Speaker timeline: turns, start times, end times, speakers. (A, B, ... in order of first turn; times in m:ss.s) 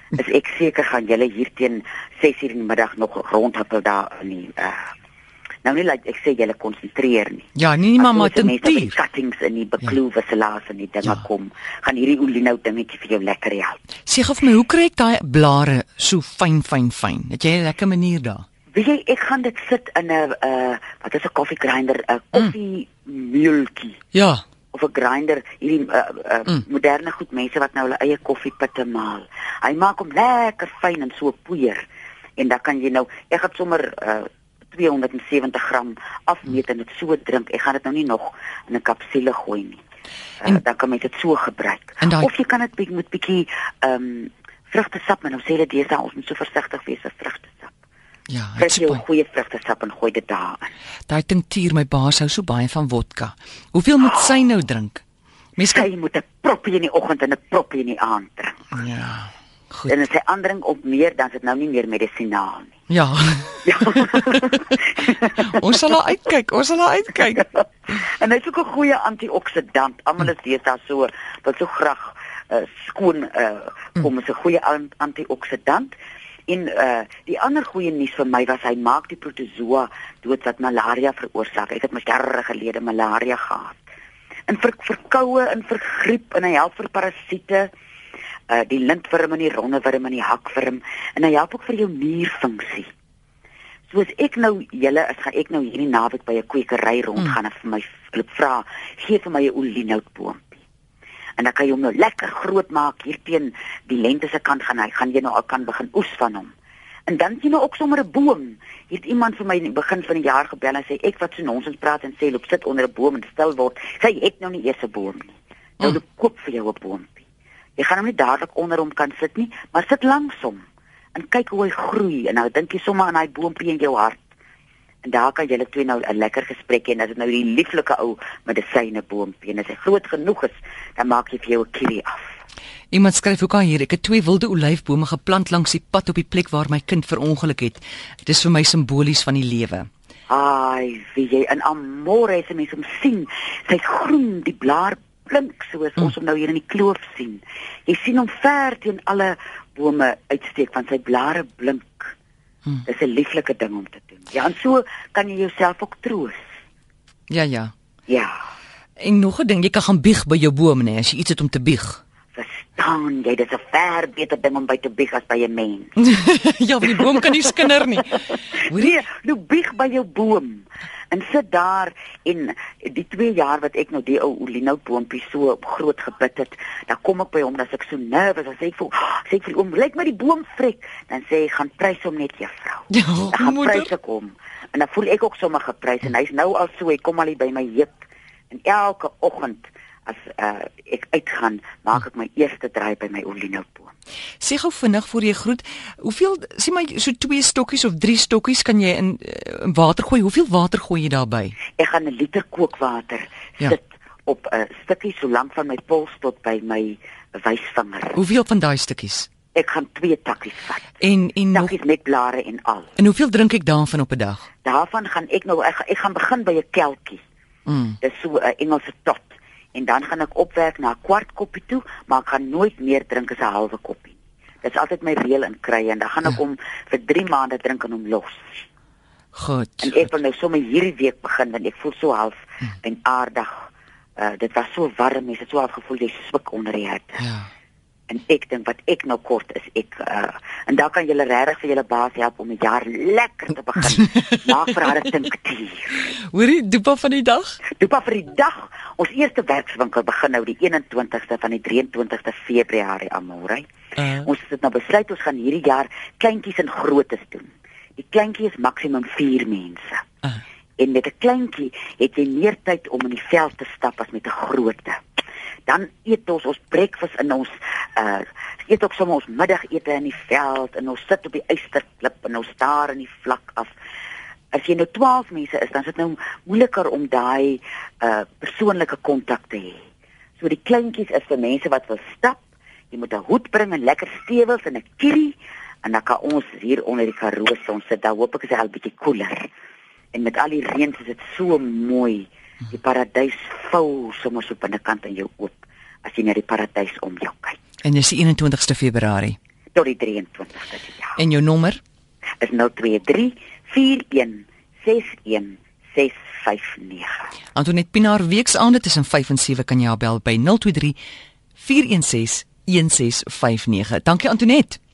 0:00.1-0:04.9 A
0:05.6-0:07.5 A
0:07.6-0:08.9 B
0:08.0-0:13.8 A
0:14.1-0:18.4 B
0:18.7-0:24.0 A
0:24.1-0:24.4 B
0:24.7-0:31.8 A
0:32.4-0:39.8 A
0:40.4-0:47.7 A
0:42.0-0:42.3 B
0:48.3-0:49.0 B
0:48.6-0:50.7 A
0:51.1-0:55.0 B
0:55.6-0:55.9 B
0:55.7-0:58.6 A
0:58.8-1:00.0 B
0:59.9-1:02.8 A
1:02.9-1:04.4 B
1:03.6-1:05.5 A
1:05.2-1:07.5 B
1:07.9-1:16.0 A
1:16.5-1:23.8 A
1:24.5-1:27.7 A
1:28.5-1:32.9 A
1:33.9-1:40.6 A
1:41.4-1:46.5 A
1:47.1-1:57.2 A
1:57.8-2:04.2 A
2:05.0-2:12.3 A
2:12.9-2:19.9 B
2:20.3-2:32.1 A
2:32.9-2:36.4 A
2:37.3-2:37.7 B
2:38.1-2:38.4 A
2:39.0-2:42.0 B
2:42.3-2:45.9 A
2:46.0-2:49.0 B
2:46.9-2:47.7 A
2:48.6-3:08.0 A
3:02.9-3:03.9 B
3:08.5-3:13.9 A
3:14.4-3:21.6 B
3:21.8-3:28.2 A
3:28.2-3:29.3 B
3:29.5-3:31.0 A
3:31.0-3:31.7 B
3:31.5-3:32.9 A
3:33.0-3:34.5 B
3:34.6-3:37.2 A
3:37.7-3:38.0 B
3:38.0-3:48.7 A
3:49.3-3:49.9 B
3:49.8-3:53.7 A
3:54.2-3:57.2 A
3:57.2-3:57.5 B
3:58.1-4:06.1 A
4:04.1-4:04.7 B
4:06.0-4:07.6 B
4:07.7-4:20.1 A
4:14.0-4:14.3 B
4:20.8-4:25.0 A
4:25.7-4:33.7 A
4:34.5-4:39.8 A
4:40.4-4:49.5 A
4:50.1-4:57.6 A
4:57.8-4:59.4 B
4:59.8-5:01.2 A
5:01.2-5:01.8 B
5:02.4-5:07.3 A
5:07.5-5:11.0 B
5:11.6-5:14.8 B